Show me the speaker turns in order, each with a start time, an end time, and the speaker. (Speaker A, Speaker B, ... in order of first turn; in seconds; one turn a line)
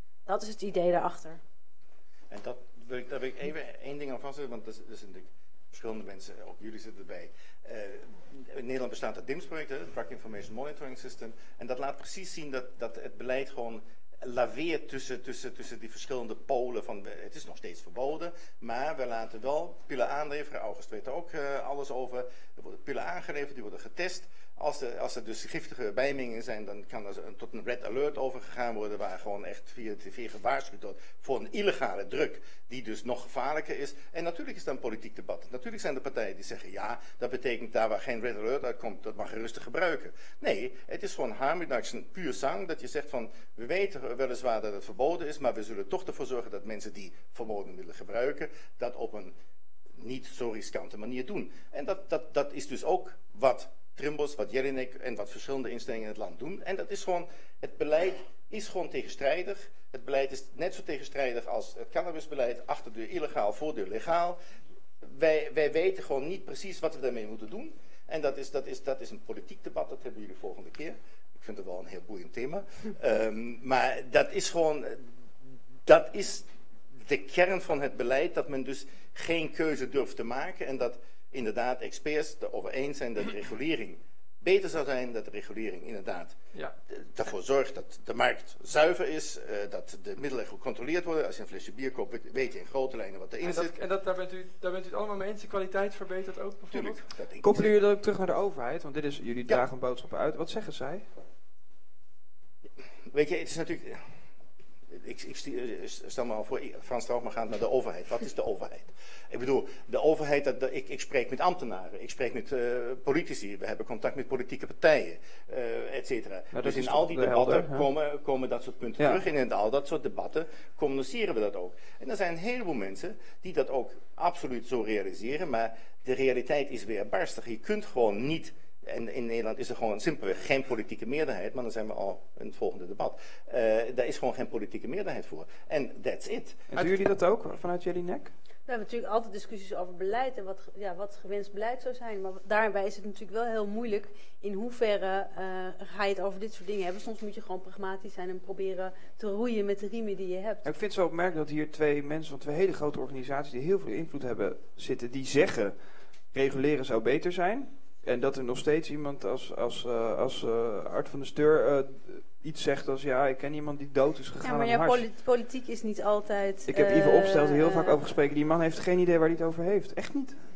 Speaker A: 0.2-1.4
Speaker B: 2.3-49.3
Speaker B: 50.0-64.4
Speaker B: 65.0-75.1
Speaker B: 75.8-86.3
Speaker B: 86.9-93.7
Speaker C: 93.4-97.0
Speaker B: 96.7-97.7
Speaker D: 97.4-101.1
Speaker B: 103.1-104.1
Speaker B: 104.9-136.6
Speaker D: 116.5-117.9
Speaker D: 119.0-119.2
Speaker D: 136.7-138.3
Speaker C: 136.7-137.0
Speaker A: 138.7-150.7
Speaker D: 150.6-155.8
Speaker D: 156.3-165.0
Speaker A: 164.4-168.0
Speaker D: 166.7-170.3